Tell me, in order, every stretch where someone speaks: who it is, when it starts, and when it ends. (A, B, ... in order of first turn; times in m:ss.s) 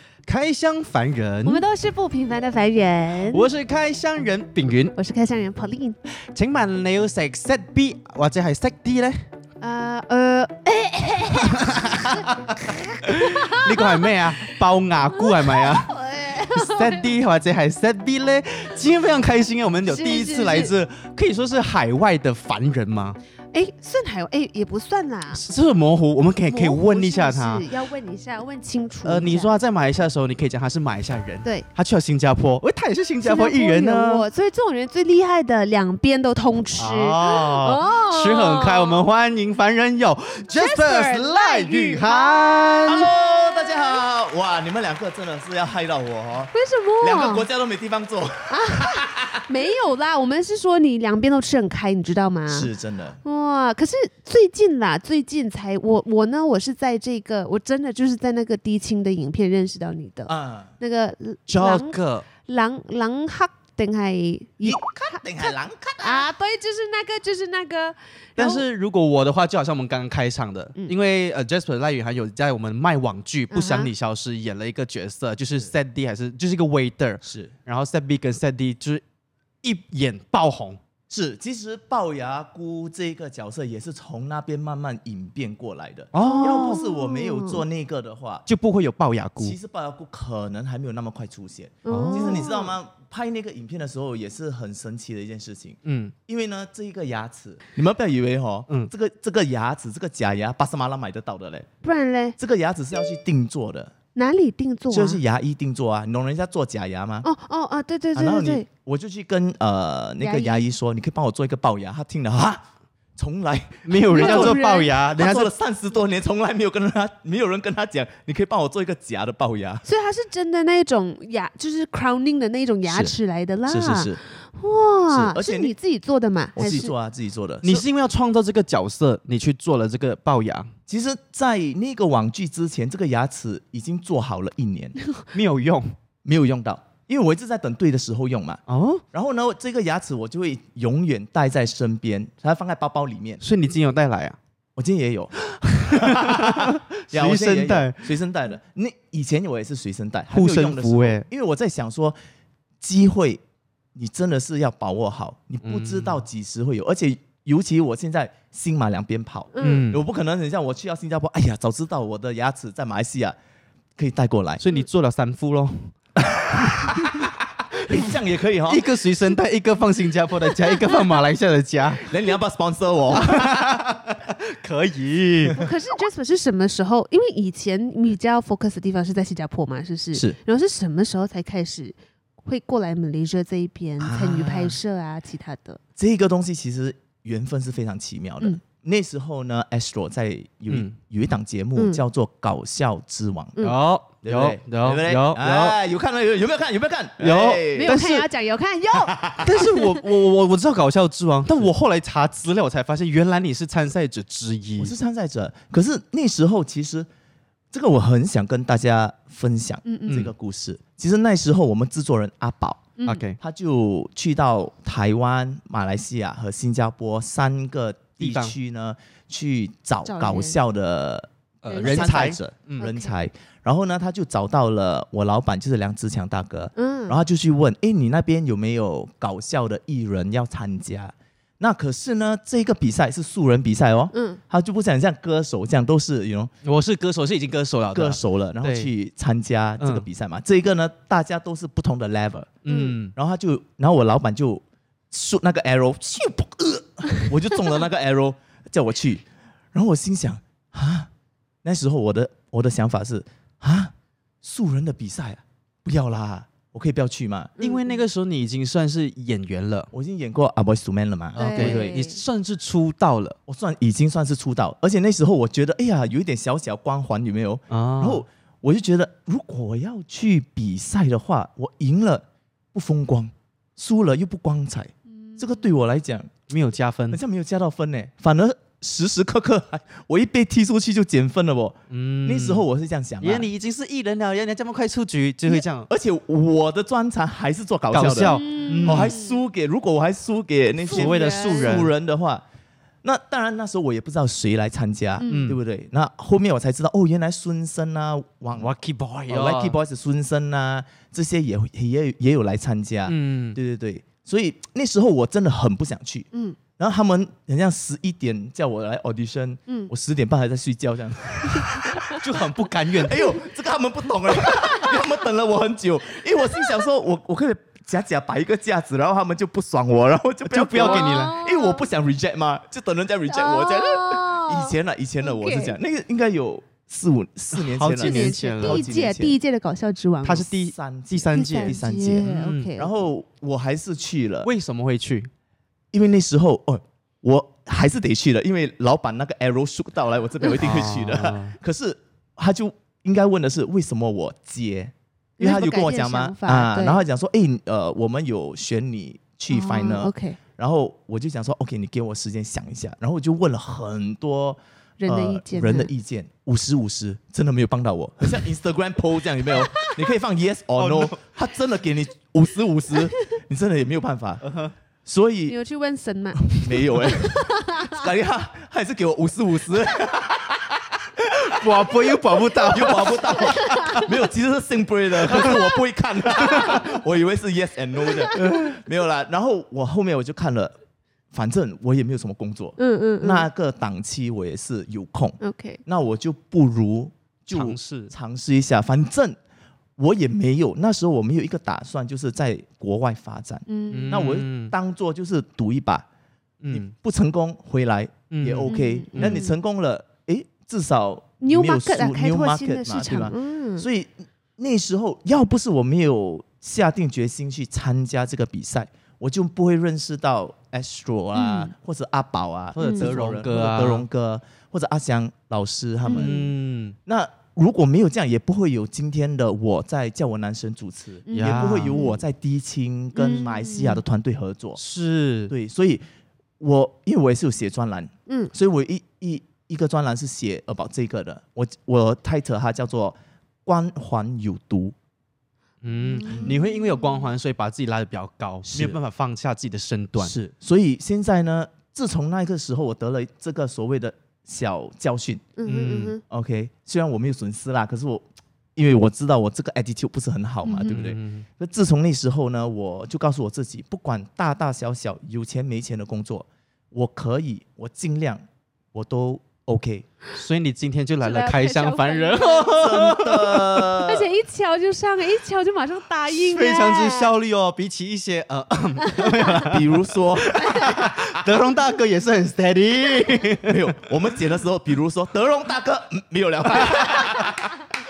0:00.2-0:01.6 A
0:01.4-0:03.5 B
0:03.3-0:04.9 A
0:04.9-0:06.0 B
0:06.3-0:09.2 A
0:09.6-0:14.6 B
0:11.6-0:12.5 A
0:13.0-0:16.0 A
0:15.1-0:17.1 B
0:16.5-0:23.2 A
0:19.9-0:20.7 B
0:23.5-0:25.4 B
0:25.3-0:27.7 A
0:26.5-0:29.5 B
0:29.0-0:34.3 A
0:33.2-0:39.0 B
0:36.8-0:43.1 A
0:40.5-0:42.7 B
0:42.8-0:49.4 C
0:43.7-0:44.0 B
0:46.5-0:47.5 B
0:48.5-0:52.7 B
0:52.5-0:53.2 C
0:53.2-1:08.6 B
1:00.3-1:00.7 C
1:01.5-1:02.3 A
1:04.6-1:06.3 C
1:08.4-1:19.0 A
1:13.5-1:13.9 B
1:17.2-1:17.5 C
1:19.6-1:20.8 A
1:21.1-1:28.4 C
1:26.1-1:26.8 A
1:26.2-1:27.6 B
1:28.5-1:29.6 A
1:29.4-1:41.7 C
1:31.8-1:32.7 B
1:31.9-1:32.4 A
1:35.8-1:36.1 A
1:41.8-1:42.4 B
1:42.4-1:43.9 C
1:44.1-1:45.2 B
1:44.9-1:47.3 C
1:47.2-1:48.6 B
1:48.1-1:52.6 C
1:50.2-1:50.7 B
1:53.2-1:59.8 C
1:53.8-1:55.5 A
1:54.1-1:54.9 B
1:59.8-2:06.9 B
2:02.8-2:04.2 C
2:05.1-2:05.7 C
2:06.5-2:07.8 C
2:07.6-2:10.7 A
2:10.9-2:15.0 C
2:15.3-2:15.9 A
2:16.2-2:18.6 C
2:18.7-2:19.0 A
2:19.1-2:23.4 C
2:23.4-2:24.4 A
2:24.8-2:32.2 C
2:25.4-2:28.1 A
2:30.3-2:31.3 A
2:32.8-2:33.4 C
2:33.9-2:43.4 C
2:35.6-2:36.2 A
2:39.5-2:39.9 B
2:39.6-2:40.0 A
2:44.0-2:44.6 C
2:44.6-2:45.9 A
2:46.4-2:48.9 C
2:46.5-2:52.1 A
2:50.6-2:51.1 B
2:52.0-2:53.9 C
2:53.1-2:55.6 A
2:55.5-3:05.8 B
3:04.0-3:04.8 C
3:06.0-3:13.6 C
3:10.7-3:10.9 A
3:11.8-3:12.0 B
3:13.6-3:15.8 A
3:14.2-3:18.0 C
3:17.2-3:18.3 A
3:17.8-3:20.0 B
3:18.9-3:19.5 C
3:19.4-3:24.9 A
3:24.8-3:27.1 C
3:27.7-3:56.5 C
3:29.8-3:30.2 B
3:33.0-3:33.2 B
3:33.0-3:33.4 A
3:38.2-3:38.5 A
3:40.0-3:40.6 B
3:41.6-3:42.9 A
3:41.7-3:42.2 B
3:42.8-3:43.2 B
3:46.8-3:47.2 B
3:54.1-3:54.4 B
3:56.6-3:58.9 A
3:57.9-4:02.6 C
3:59.8-4:00.0 A
4:02.6-4:03.1 A
4:02.7-4:03.0 B
4:03.1-4:11.1 C
4:11.6-4:17.5 C
4:17.6-4:18.0 B
4:17.6-4:19.9 A
4:19.9-4:22.0 C
4:21.3-4:23.4 A
4:21.4-4:22.2 B
4:23.5-4:36.4 C
4:27.7-4:28.2 A
4:36.5-4:37.2 A
4:37.1-4:43.5 C
4:41.9-4:42.6 A
4:43.2-4:45.9 A
4:45.4-4:52.4 C
4:47.9-4:49.1 A
4:48.2-4:49.4 B
4:50.8-4:51.9 B
4:50.9-4:51.9 A
4:53.0-4:58.7 C
4:55.2-4:55.4 B
4:55.2-4:55.6 A
4:58.6-4:59.8 A
4:59.3-5:29.4 C
5:03.1-5:03.6 A
5:06.3-5:06.6 B
5:12.1-5:13.4 A
5:14.4-5:14.9 B
5:20.5-5:21.4 A
5:20.8-5:21.9 B
5:23.3-5:25.8 B
5:27.5-5:28.8 A
5:28.0-5:30.5 B
5:30.2-5:32.7 A
5:30.4-5:34.5 C
5:31.3-5:32.9 B
5:34.4-5:35.3 A
5:35.9-6:04.4 C
5:40.6-5:41.6 A
5:45.4-5:47.0 B
5:49.5-5:50.4 B
5:55.0-5:55.9 B
6:00.8-6:01.2 A
6:04.4-6:04.7 A
6:05.0-6:05.6 C
6:05.5-6:08.0 B
6:06.4-6:12.0 C
6:11.4-6:14.1 A
6:12.6-6:20.7 C
6:13.2-6:14.1 B
6:16.5-6:16.8 A
6:18.4-6:18.8 A
6:21.3-6:29.4 C
6:22.8-6:23.5 B
6:25.4-6:25.8 B
6:27.5-6:28.1 A
6:30.0-6:36.0 C
6:33.7-6:34.3 B
6:33.9-6:34.7 A
6:36.6-6:36.9 A
6:36.7-6:56.5 C
6:38.3-6:39.4 A
6:38.7-6:39.6 B
6:41.4-6:43.9 B
6:51.3-6:51.7 B
6:52.8-6:54.0 A
6:52.8-6:53.1 B
6:56.0-6:56.5 B
6:56.1-6:57.0 A
6:57.0-7:04.8 C
7:01.2-7:02.2 B
7:01.3-7:02.0 A
7:03.1-7:04.0 B
7:04.8-7:05.5 A
7:05.5-7:06.0 C
7:06.6-7:14.9 C
7:15.8-7:20.4 A
7:16.2-7:16.8 B
7:18.7-7:19.0 C
7:20.2-7:25.5 C
7:25.6-7:26.2 B
7:25.6-7:26.2 A
7:26.3-7:40.1 C
7:30.6-7:31.0 B
7:30.8-7:31.4 A
7:40.3-7:43.9 A
7:41.2-7:43.0 B
7:42.7-7:44.3 C
7:44.0-7:47.3 B
7:46.3-7:53.8 A
7:49.1-7:49.6 B
7:49.6-7:51.2 C
7:50.5-7:51.2 B
7:53.6-7:57.7 C